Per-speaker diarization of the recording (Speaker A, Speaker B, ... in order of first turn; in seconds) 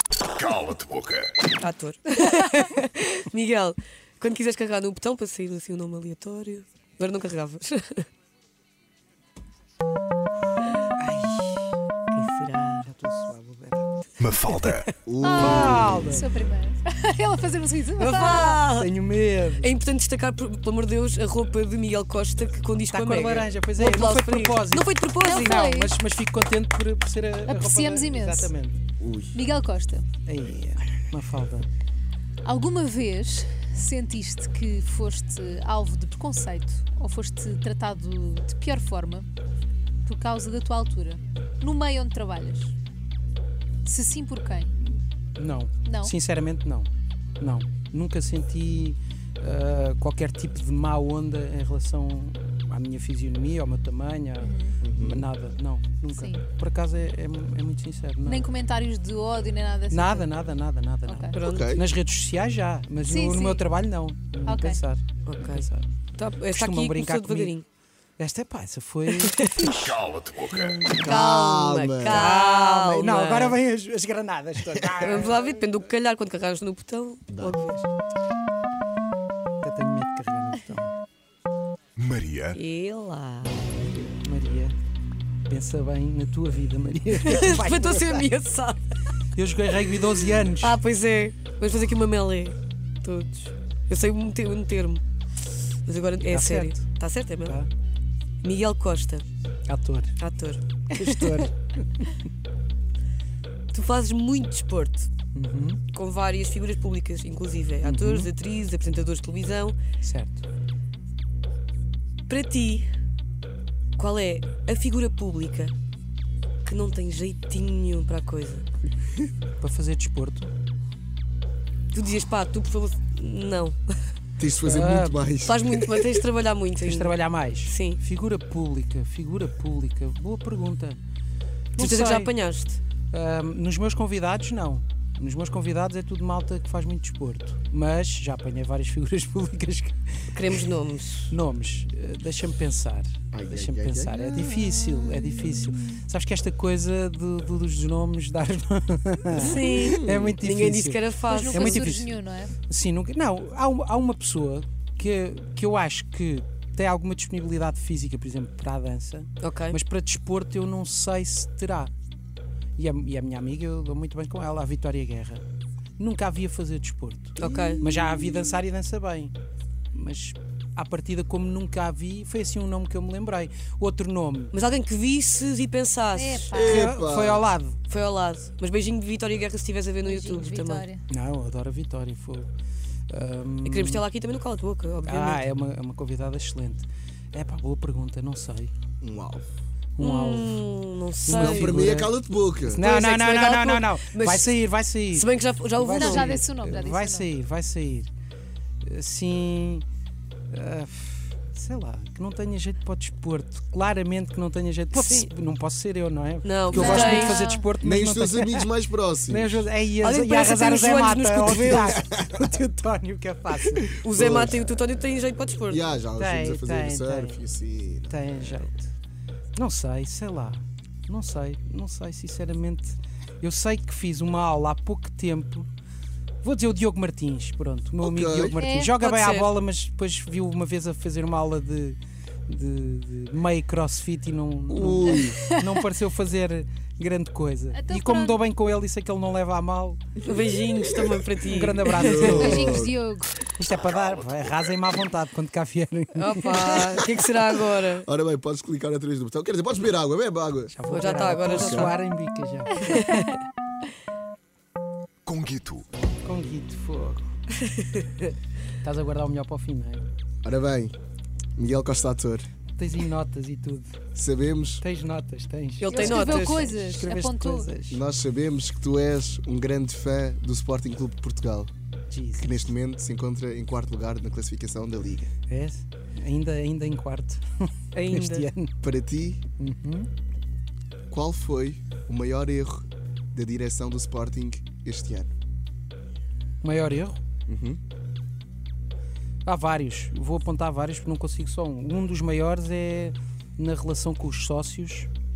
Speaker A: 0.4-1.4, 14.2-14.9, 69.8-70.8, 82.0-82.6, 243.8-244.7, 255.2-255.9
Speaker B: 1.6-8.1, 12.1-12.9, 17.9-18.9, 19.6-25.6, 61.3-61.7, 65.2-67.6, 69.1-69.7, 70.9-73.6, 75.0-77.9, 82.5-83.6, 87.1-88.9, 89.8-95.0, 95.8-97.6, 98.4-99.2, 100.2-101.5, 103.7-105.1, 105.9-109.8, 112.3-112.8, 114.0-115.7, 116.6-118.7, 121.9-123.8, 125.5-128.0, 131.8-132.8, 140.3-141.3, 149.3-151.9, 159.4-159.8, 167.4-167.8, 174.5-176.5, 177.9-180.9, 183.6-185.5, 190.0-192.0, 192.8-194.5, 195.1-196.4, 204.9-205.3, 206.4-207.4, 210.0-212.0, 214.0-215.9, 228.9-229.5, 240.2-242.4, 246.1-248.1, 250.9-251.9, 252.9-253.2, 265.8-266.8, 277.9-278.5
Speaker C: 11.0-11.8, 12.8-16.3, 18.6-19.7, 22.9-28.8, 30.3-31.6, 44.8-46.9, 47.4-58.5, 59.9-67.6, 68.2-71.2, 72.1-75.6, 79.6-80.9, 83.6-84.8, 85.5-88.3, 89.3-90.8, 96.3-96.9, 97.4-97.7, 99.7-100.2, 100.9-102.1, 105.3-105.8, 107.8-108.3, 110.0-110.4, 119.6-120.5, 124.6-125.3, 126.8-131.0, 131.7-132.3, 133.1-140.2, 141.3-161.9, 162.8-165.4, 166.0-169.3, 169.9-174.5, 176.6-177.8, 181.1-182.5, 183.1-184.0, 185.0-188.7, 190.0-190.6, 191.2-198.1, 198.8-199.8, 200.5-208.7, 209.3-214.0, 216.1-217.4, 218.1-218.9, 219.6-225.7, 226.4-240.0, 241.4-242.8, 243.5-246.9, 250.7-253.4, 256.2-257.3, 258.8-260.1, 262.8-264.0, 264.8-268.0, 272.1-272.7, 275.5-278.7, 279.6-280.1, 286.6-287.2, 289.4-295.1
Speaker D: 15.1-16.2, 29.0-29.4, 54.8-55.2, 61.4-61.8, 71.0-72.3, 77.3-77.6, 124.4-126.1, 143.3-144.4, 149.4-150.3, 176.5-177.5, 189.0-189.4, 191.3-192.8, 206.7-207.1, 207.8-209.7, 211.9-212.5, 213.9-214.8, 215.7-218.6, 228.0-228.6, 234.7-235.4, 241.9-242.9, 247.8-250.7, 251.5-251.9, 260.4-260.9, 261.6-262.5, 264.1-264.8, 267.9-271.7, 272.4-275.3, 278.8-279.4, 281.1-285.3, 287.5-287.8
Speaker E: 15.2-18.6, 25.2-25.9, 27.4-28.5, 29.3-30.1, 32.4-39.3, 40.0-42.7, 43.8-44.8, 45.8-46.1, 54.4-54.8, 56.1-56.4, 58.2-60.3, 61.1-61.4, 63.0-63.7, 64.5-64.8, 151.3-152.5, 176.1-176.9, 180.0-181.0, 195.9-197.3, 206.7-207.7, 228.6-228.9, 235.3-235.6, 237.7-238.4, 242.0-243.4, 265.9-267.7